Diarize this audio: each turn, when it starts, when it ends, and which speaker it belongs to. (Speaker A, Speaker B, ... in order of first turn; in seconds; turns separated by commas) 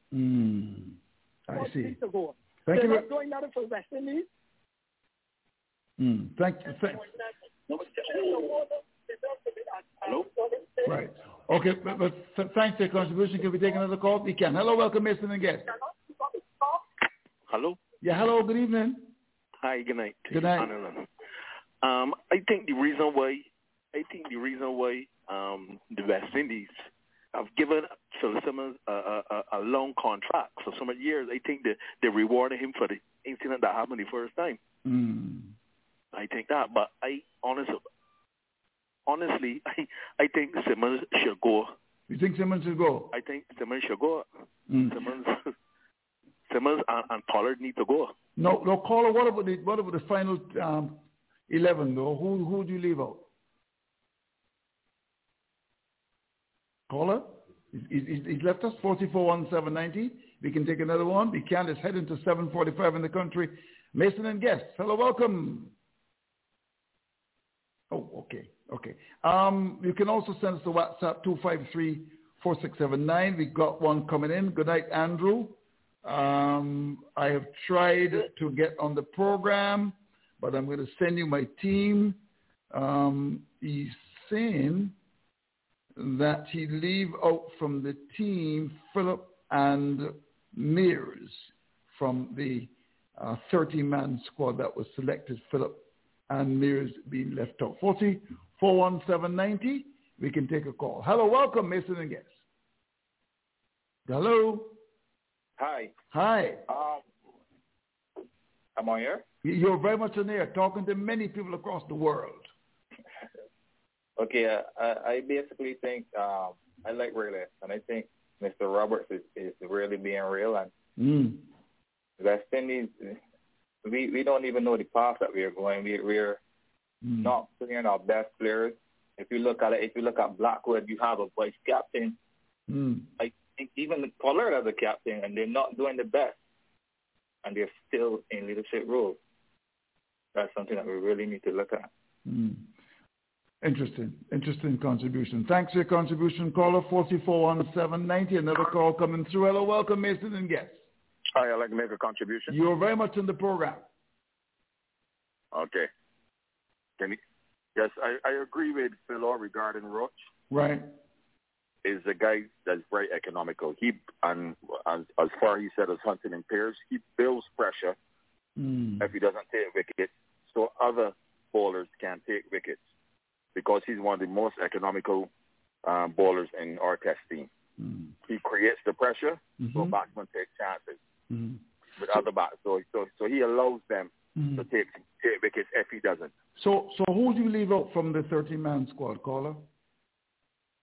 Speaker A: 0.1-1.0, Speaker A: 1.5-1.9, Speaker B: 1.5-4.2, Speaker A: 2.7-3.0, Speaker A: 6.0-7.1, Speaker B: 7.7-11.0, Speaker A: 10.8-15.7, Speaker B: 16.2-16.8, Speaker C: 17.5-17.8, Speaker A: 18.0-19.1, Speaker C: 19.6-21.1, Speaker A: 20.3-20.7, Speaker C: 21.8-34.6, Speaker A: 34.8-35.5, Speaker C: 36.1-37.9, Speaker C: 39.0-41.7, Speaker A: 42.1-43.1, Speaker C: 43.1-44.3, Speaker A: 44.7-44.9, Speaker C: 44.9-45.4, Speaker C: 46.5-48.1, Speaker A: 48.4-53.2, Speaker A: 56.9-65.7, Speaker A: 67.9-82.2, Speaker A: 82.7-84.9, Speaker A: 86.0-102.3, Speaker A: 104.1-104.8, Speaker D: 105.6-105.9, Speaker A: 106.1-106.6, Speaker D: 106.7-107.0, Speaker D: 108.8-109.2, Speaker A: 109.4-112.5, Speaker D: 114.2-120.7, Speaker A: 121.0-121.4, Speaker D: 122.2-123.2, Speaker D: 123.8-126.4, Speaker A: 127.0-127.3, Speaker D: 127.2-132.2, Speaker A: 132.7-133.1, Speaker D: 133.2-136.4, Speaker D: 137.4-139.2, Speaker D: 140.3-141.9, Speaker A: 142.2-142.7, Speaker A: 143.6-150.8, Speaker D: 151.4-152.5, Speaker A: 152.5-153.8, Speaker E: 155.5-155.9, Speaker E: 157.8-160.2, Speaker A: 160.5-160.9, Speaker E: 161.8-167.9, Speaker A: 168.6-169.1, Speaker E: 169.0-172.8, Speaker E: 173.5-175.3, Speaker E: 175.8-177.5, Speaker A: 177.8-178.1, Speaker E: 178.2-181.0, Speaker A: 179.6-179.9, Speaker A: 181.3-181.6, Speaker E: 182.0-186.3, Speaker A: 184.4-184.7, Speaker A: 186.6-189.6